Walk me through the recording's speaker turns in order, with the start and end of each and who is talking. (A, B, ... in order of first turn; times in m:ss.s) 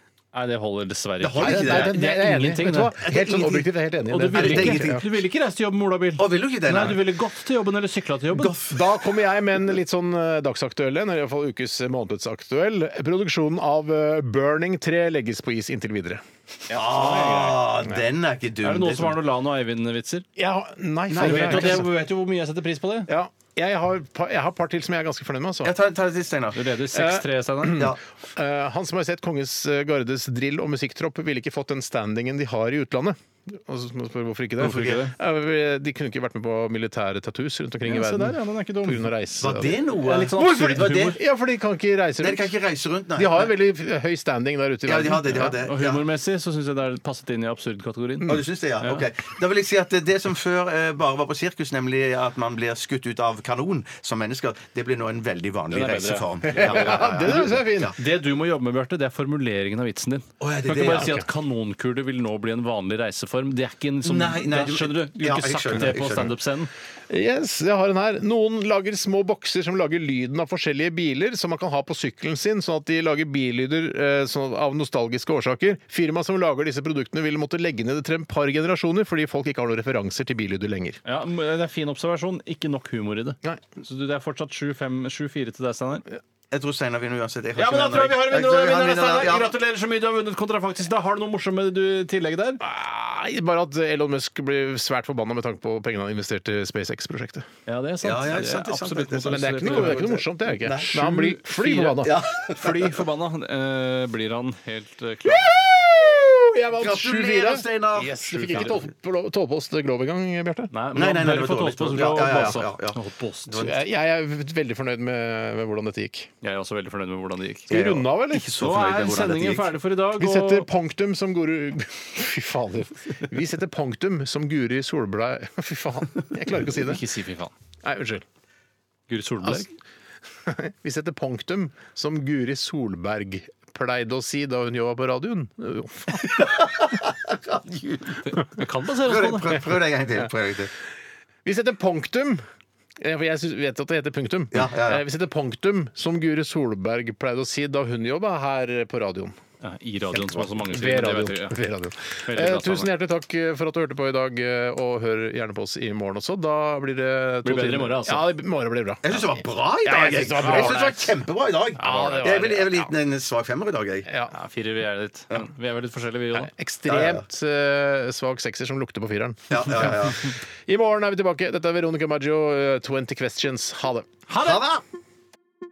0:00.3-0:03.0 A
0:01.2-0:02.0 B
0:01.4-0:05.0 C
0:03.0-0:03.7 B
0:04.1-0:08.5 A
0:04.3-0:05.1 B
0:06.2-0:07.0 B
0:08.3-0:08.9 B
0:08.6-0:16.2 C
0:16.7-0:17.7 A
0:16.7-0:19.2 B
0:18.6-0:20.2 A
0:20.4-0:21.9 C
0:21.1-0:21.9 B
0:21.1-0:23.1 A
0:23.1-0:25.7 C
0:25.6-0:26.6 B
0:26.5-0:27.9 A
0:26.9-0:39.8 C
0:27.7-0:28.0 B
0:34.6-0:35.1 A
0:37.8-0:39.1 A
0:39.4-0:41.2 B
0:40.0-0:41.2 A
0:40.4-0:42.5 C
0:42.2-0:43.5 B
0:43.2-0:45.5 C
0:44.8-0:46.0 B
0:45.5-0:49.0 A
0:48.2-0:57.9 B
0:55.7-1:06.7 A
0:56.5-0:57.9 C
1:00.4-1:01.2 B
1:01.0-1:01.2 C
1:04.0-1:06.3 B
1:07.1-1:21.0 C
1:21.0-1:26.0 A
1:26.5-1:29.5 B
1:27.6-1:32.6 A
1:32.6-1:37.5 C
1:37.7-1:40.1 A
1:38.0-1:41.0 B
1:39.3-1:42.2 C
1:40.8-1:45.4 A
1:42.0-1:43.0 B
1:45.2-1:50.7 C
1:46.8-1:48.8 B
1:50.7-1:53.7 A
1:50.9-1:53.7 B
1:53.6-1:56.3 C
1:56.4-1:57.7 A
1:57.7-1:58.5 C
1:57.7-1:59.7 B
1:58.6-2:00.7 A
2:00.2-2:07.1 C
2:06.6-2:07.5 A
2:07.8-2:08.2 C
2:09.1-2:09.7 A
2:10.4-2:16.6 C
2:16.3-2:18.2 B
2:18.2-2:19.6 A
2:19.0-2:20.7 B
2:21.4-2:22.4 C
2:23.0-2:29.4 C
2:24.5-2:25.0 B
2:29.6-2:31.6 A
2:30.1-2:30.6 B
2:30.7-2:41.2 C
2:32.2-2:32.9 A
2:37.4-2:38.2 A
2:39.0-2:44.1 B
2:41.8-2:42.9 C
2:44.1-2:44.3 C
2:44.3-2:46.5 A
2:46.3-2:54.1 C
2:46.9-2:47.2 B
2:49.5-2:50.3 B
2:54.3-2:54.6 A
2:54.4-2:54.8 B